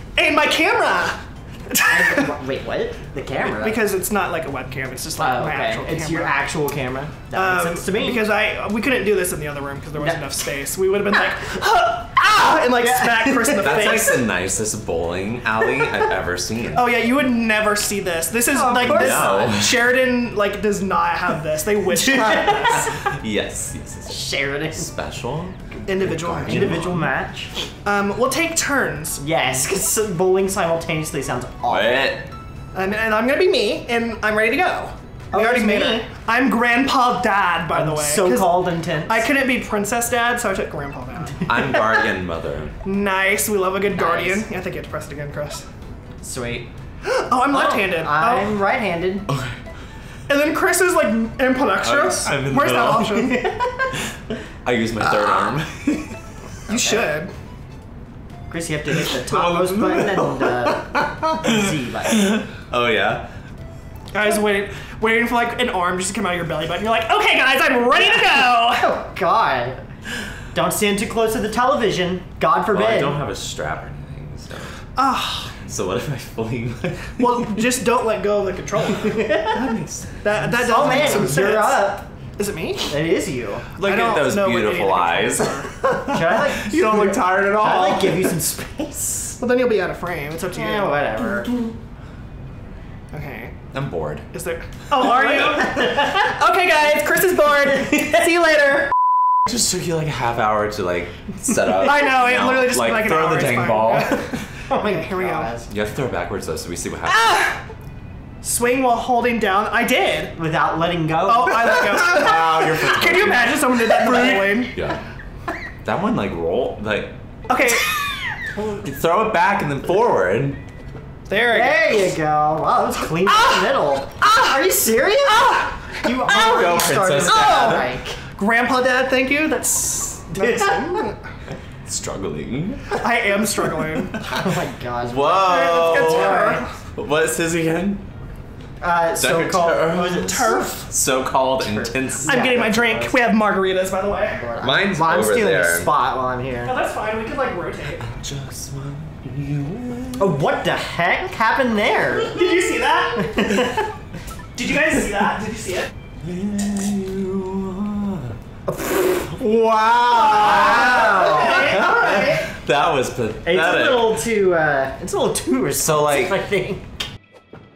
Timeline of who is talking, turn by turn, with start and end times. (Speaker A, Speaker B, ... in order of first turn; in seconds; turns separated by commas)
Speaker A: 0.1-2.3, Speaker B: 1.9-3.9, Speaker A: 3.4-6.3, Speaker B: 5.2-8.3, Speaker A: 7.3-14.2, Speaker B: 12.6-14.0, Speaker C: 13.6-17.0, Speaker A: 16.7-22.9, Speaker B: 18.5-19.6, Speaker C: 18.8-19.9, Speaker B: 21.9-23.1, Speaker C: 22.7-27.1, Speaker B: 24.1-24.9, Speaker A: 25.9-26.8, Speaker B: 26.4-27.5, Speaker A: 27.8-29.2, Speaker B: 29.2-31.9, Speaker C: 31.7-32.3, Speaker A: 32.7-38.5, Speaker B: 35.3-36.1, Speaker B: 37.7-39.2, Speaker A: 39.1-41.4, Speaker C: 41.4-42.8, Speaker A: 42.8-45.6, Speaker B: 43.9-44.5, Speaker B: 46.2-46.7, Speaker A: 47.0-48.5, Speaker B: 47.5-49.3, Speaker C: 49.3-49.6, Speaker A: 50.3-53.4, Speaker C: 51.8-53.3, Speaker B: 53.2-53.9, Speaker C: 54.3-56.2, Speaker A: 56.7-57.3, Speaker B: 56.7-57.1, Speaker B: 58.5-62.4, Speaker C: 59.1-63.3, Speaker A: 64.1-68.9, Speaker B: 68.7-69.8, Speaker B: 70.5-73.2, Speaker C: 72.7-74.8, Speaker A: 75.0-75.5, Speaker C: 75.6-77.5, Speaker A: 77.2-79.5, Speaker B: 79.2-79.6, Speaker C: 79.4-80.2, Speaker A: 80.2-83.0, Speaker B: 80.4-82.1, Speaker B: 82.9-83.7, Speaker C: 83.8-88.4, Speaker A: 83.8-85.7, Speaker B: 86.0-89.4, Speaker A: 89.4-91.2, Speaker B: 90.5-91.5, Speaker A: 93.1-93.5, Speaker C: 93.7-94.2, Speaker A: 94.3-98.8, Speaker B: 95.0-96.3, Speaker C: 99.5-104.4, Speaker A: 101.8-105.5, Speaker B: 104.7-105.7, Speaker C: 105.7-107.3, Speaker A: 107.1-107.6, Speaker A: 108.4-110.3, Speaker B: 110.3-111.7, Speaker A: 111.2-114.8, Speaker C: 111.7-115.0, Speaker C: 115.8-117.1, Speaker A: 117.5-118.0, Speaker C: 118.8-120.6, Speaker A: 121.3-122.0, Speaker B: 121.4-128.2, Speaker A: 123.3-123.6, Speaker A: 124.2-124.5, Speaker A: 125.3-126.0, Speaker C: 126.2-127.9, Speaker A: 127.2-131.2, Speaker B: 130.3-131.1, Speaker C: 131.8-132.9, Speaker A: 132.9-134.2, Speaker B: 134.2-136.6, Speaker C: 135.0-138.0, Speaker A: 135.4-136.7, Speaker B: 138.8-140.9, Speaker C: 139.2-142.5, Speaker A: 140.2-140.9, Speaker B: 141.4-143.2, Speaker A: 142.2-144.4, Speaker B: 144.4-146.7, Speaker C: 144.6-145.9, Speaker A: 146.6-148.0, Speaker C: 148.0-150.4, Speaker B: 150.2-152.4, Speaker A: 152.2-153.7, Speaker B: 153.2-153.9, Speaker A: 154.5-155.9, Speaker C: 156.2-158.3, Speaker B: 158.7-159.3, Speaker C: 159.3-164.2, Speaker A: 160.1-162.4, Speaker B: 160.3-161.8, Speaker B: 163.4-167.0, Speaker C: 165.8-166.3